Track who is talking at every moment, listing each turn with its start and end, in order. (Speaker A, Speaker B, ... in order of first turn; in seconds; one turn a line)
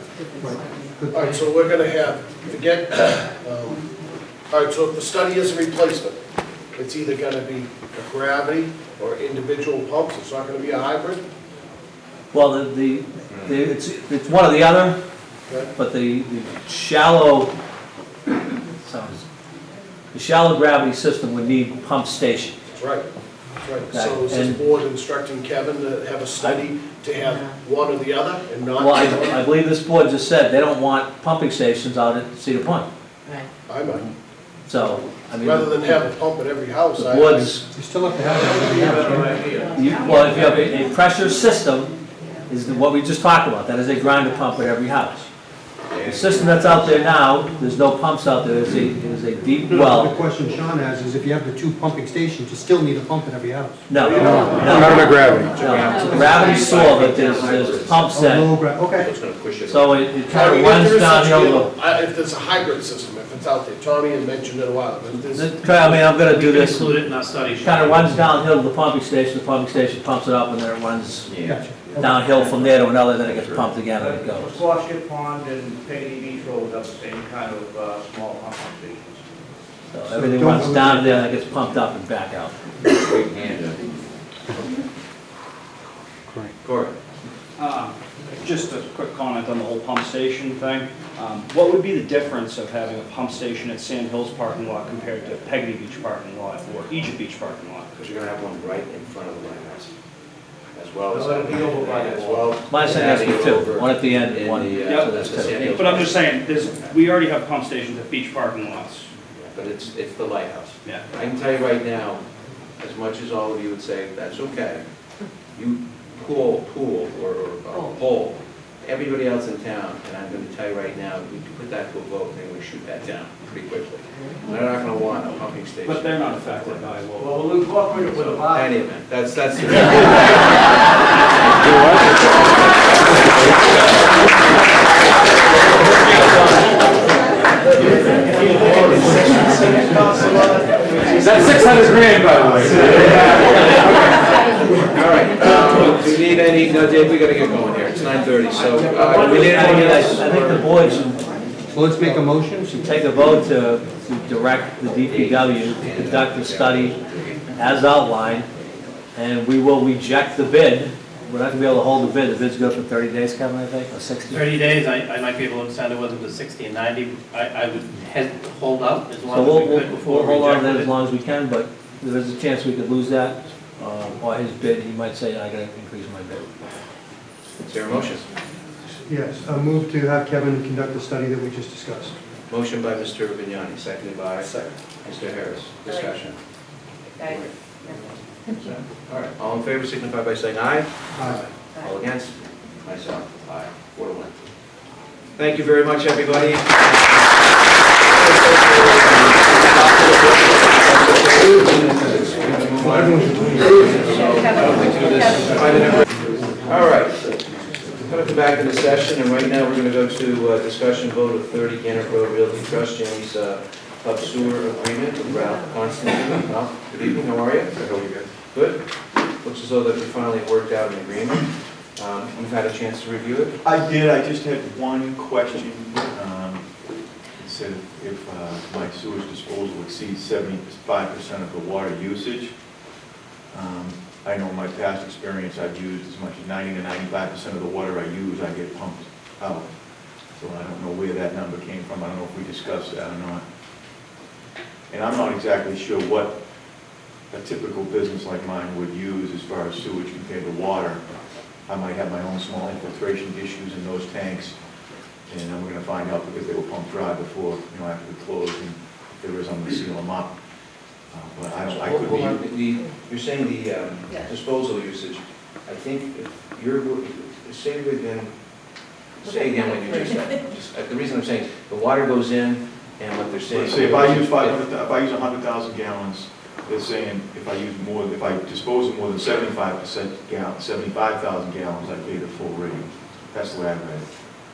Speaker A: 0.3-1.4
Speaker B: 1.1-3.8
Speaker B: 4.5-6.2
Speaker B: 6.7-11.2
Speaker C: 12.3-15.0
Speaker C: 15.8-17.5
Speaker C: 18.8-19.2
Speaker C: 20.1-22.5
Speaker B: 22.7-23.1
Speaker B: 23.6-29.4
Speaker C: 23.9-24.6
Speaker C: 28.8-32.9
Speaker B: 33.7-34.1
Speaker C: 34.6-36.1
Speaker B: 35.4-37.4
Speaker C: 37.0-37.6
Speaker A: 37.3-39.6
Speaker D: 38.4-39.9
Speaker E: 39.4-40.6
Speaker C: 39.7-41.9
Speaker C: 42.5-45.3
Speaker E: 45.9-46.8
Speaker C: 46.0-50.2
Speaker A: 49.7-55.4
Speaker C: 53.9-58.5
Speaker B: 53.9-55.3
Speaker E: 54.2-58.2
Speaker A: 58.1-59.1
Speaker E: 59.0-59.9
Speaker C: 59.7-61.7
Speaker B: 60.3-66.1
Speaker C: 65.3-66.9
Speaker F: 66.2-68.2
Speaker C: 67.6-71.4
Speaker E: 71.3-72.7
Speaker A: 71.4-72.2
Speaker C: 72.0-74.6
Speaker E: 73.2-73.6
Speaker D: 74.0-79.2
Speaker C: 79.9-82.5
Speaker A: 80.1-81.3
Speaker E: 82.9-83.8
Speaker E: 86.6-86.9
Speaker G: 87.6-97.9
Speaker E: 97.9-99.9
Speaker E: 100.8-106.9
Speaker D: 101.1-103.1
Speaker C: 102.7-105.8
Speaker G: 104.8-109.1
Speaker E: 109.3-112.2
Speaker E: 112.8-114.8
Speaker E: 115.5-126.8
Speaker G: 125.8-127.3
Speaker D: 127.2-128.8
Speaker E: 128.1-130.7
Speaker D: 138.3-139.2
Speaker D: 141.2-143.8
Speaker E: 142.7-143.9
Speaker E: 144.8-150.2
Speaker D: 148.8-149.6
Speaker C: 149.1-151.2
Speaker A: 151.7-152.8
Speaker C: 152.7-157.0
Speaker E: 155.1-157.0
Speaker C: 157.6-158.5
Speaker C: 159.1-164.5
Speaker F: 164.3-170.9
Speaker C: 169.3-176.5
Speaker E: 177.6-178.3
Speaker A: 179.1-182.1
Speaker E: 182.5-186.4
Speaker A: 184.4-184.7
Speaker E: 187.2-187.5
Speaker E: 188.5-194.5
Speaker A: 191.1-191.4
Speaker E: 195.4-197.5
Speaker E: 198.0-206.1
Speaker E: 206.6-207.4
Speaker E: 207.9-217.8
Speaker H: 217.8-218.3
Speaker E: 218.5-218.8
Speaker E: 219.4-223.6
Speaker H: 223.6-226.7
Speaker H: 227.4-232.5
Speaker H: 233.5-239.7
Speaker H: 240.4-243.4
Speaker H: 244.9-246.4
Speaker H: 247.3-251.0
Speaker H: 251.7-254.6
Speaker H: 255.3-260.3
Speaker H: 261.1-262.4
Speaker E: 261.7-268.3
Speaker E: 269.2-274.6
Speaker H: 273.5-284.1